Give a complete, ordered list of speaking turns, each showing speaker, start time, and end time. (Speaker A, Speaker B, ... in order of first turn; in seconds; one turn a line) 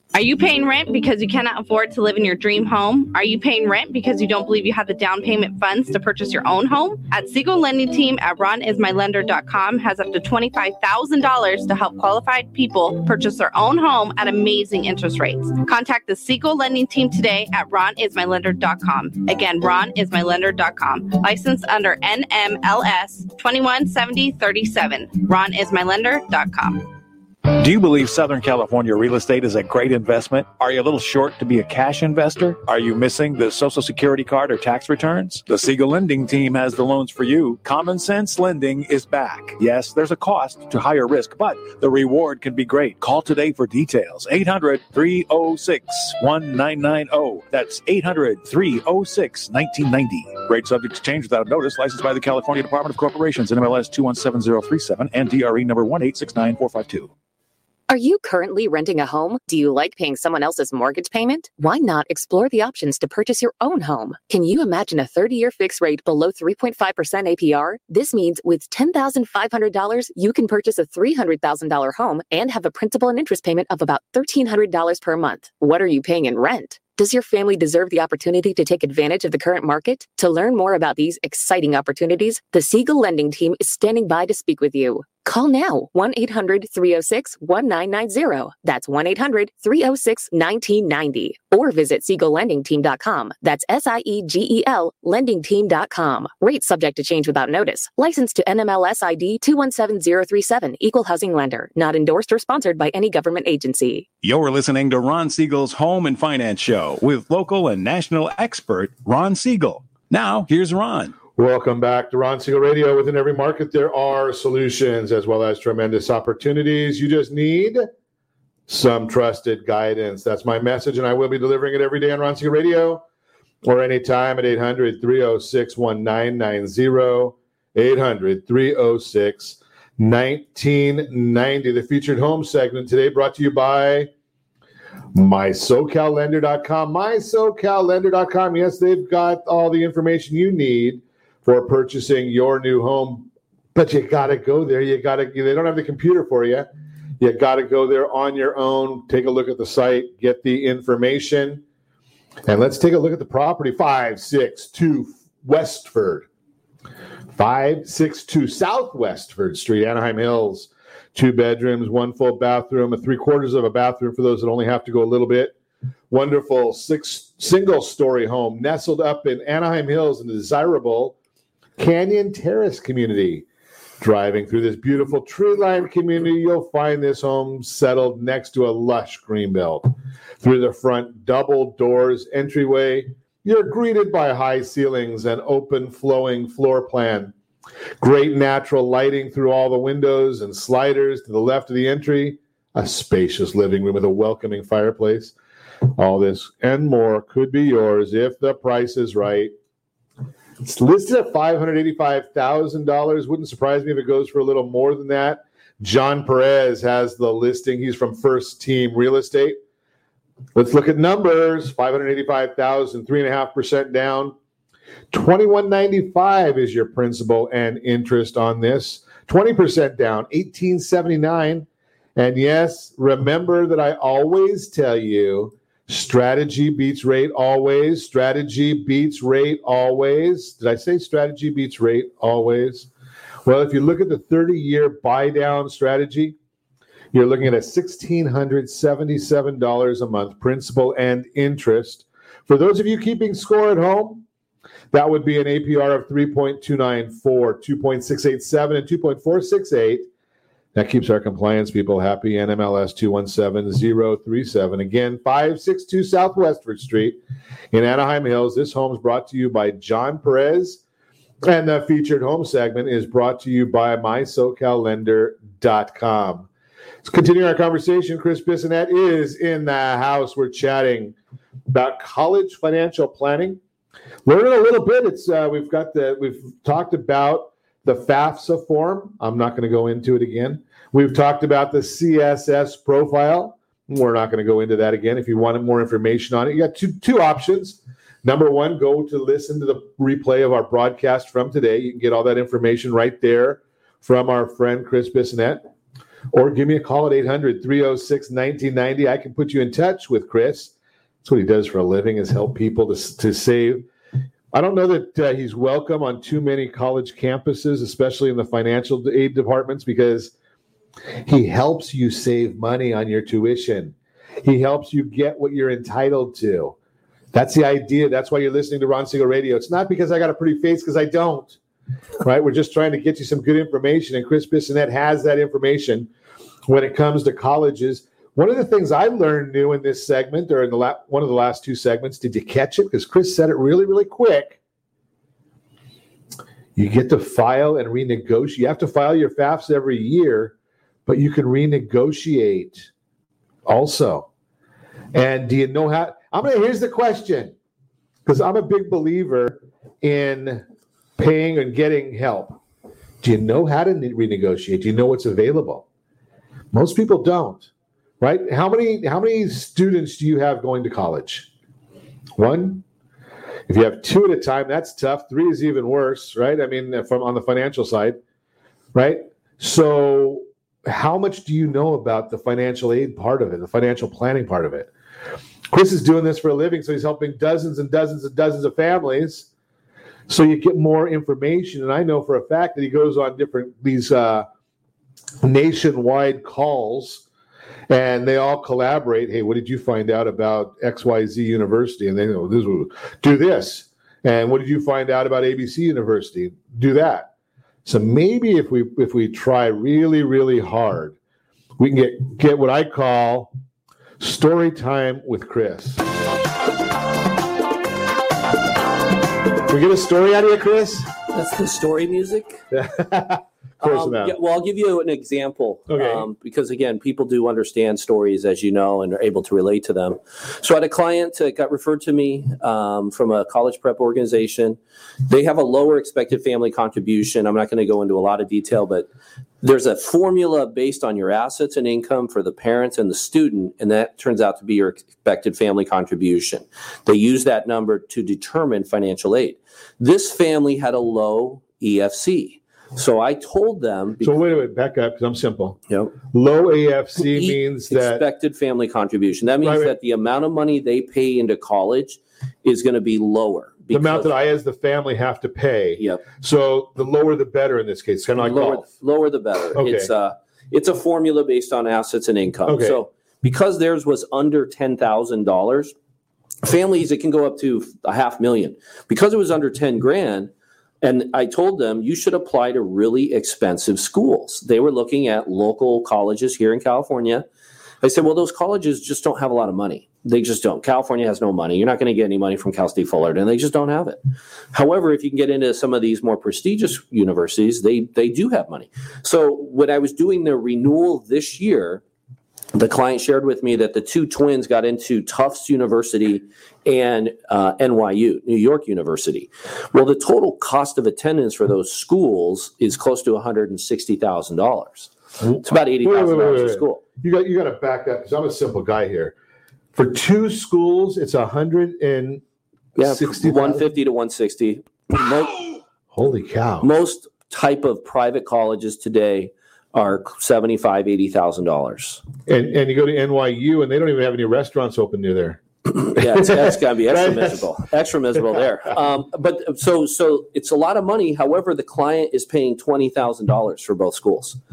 Speaker A: 0.1-26.9
Speaker B: 27.6-57.1
Speaker C: 57.9-104.1
Speaker D: 104.2-111.2
Speaker E: 111.4-117.9
Speaker E: 118.7-123.0
Speaker E: 123.6-134.1
Speaker E: 135.1-146.7
Speaker E: 147.2-151.6
Speaker E: 152.5-156.3
Speaker E: 157.3-165.6
Speaker E: 166.1-171.2
Speaker E: 171.8-173.5
Speaker E: 174.0-187.3
Speaker E: 188.0-195.3
Speaker E: 196.0-199.5
Speaker E: 200.6-209.6
Speaker E: 210.6-214.3
Speaker E: 215.1-232.9
Speaker E: 233.4-236.3
Speaker E: 237.1-244.2
Speaker E: 244.9-250.1
Speaker E: 250.8-257.2
Speaker E: 257.7-260.8
Speaker E: 261.4-266.5
Speaker E: 267.0-271.1
Speaker E: 271.7-273.6
Speaker E: 274.2-295.6
Speaker E: 296.3-300.7
Speaker E: 301.2-303.9
Speaker E: 304.5-310.3
Speaker E: 311.3-316.8
Speaker E: 317.3-321.6
Speaker E: 322.2-326.1
Speaker E: 326.7-334.6
Speaker E: 336.8-340.5
Speaker E: 341.1-342.9
Speaker E: 343.7-344.3
Speaker E: 345.1-347.6
Speaker E: 348.3-350.6
Speaker E: 351.2-352.6
Speaker E: 353.2-355.9
Speaker E: 356.7-357.7
Speaker E: 358.2-361.5
Speaker E: 362.4-362.8
Speaker E: 363.7-368.2
Speaker E: 368.9-374.9
Speaker E: 375.7-379.5
Speaker E: 380.3-384.5
Speaker E: 385.4-387.2
Speaker E: 387.9-397.3
Speaker E: 397.9-401.1
Speaker E: 401.8-403.5
Speaker E: 404.2-406.0
Speaker E: 409.7-411.1
Speaker F: 411.3-412.6
Speaker E: 412.7-414.4
Speaker F: 413.8-429.1
Speaker E: 415.9-416.3
Speaker F: 429.6-444.4
Speaker E: 444.2-445.8
Speaker E: 446.3-448.2
Speaker F: 447.2-454.3
Speaker E: 449.6-449.9
Speaker E: 453.9-458.9
Speaker F: 456.0-456.2
Speaker F: 458.4-465.9
Speaker E: 459.7-460.1
Speaker E: 462.7-463.0
Speaker F: 466.6-470.5
Speaker F: 471.0-477.5
Speaker F: 478.0-484.2
Speaker F: 484.7-492.0
Speaker F: 492.7-505.1
Speaker E: 505.4-509.4
Speaker F: 505.6-507.0
Speaker E: 509.9-512.4
Speaker E: 513.0-513.9
Speaker F: 513.0-515.8
Speaker E: 516.1-516.9
Speaker F: 516.8-522.2
Speaker E: 522.5-525.6
Speaker F: 526.0-534.6
Speaker E: 526.2-527.7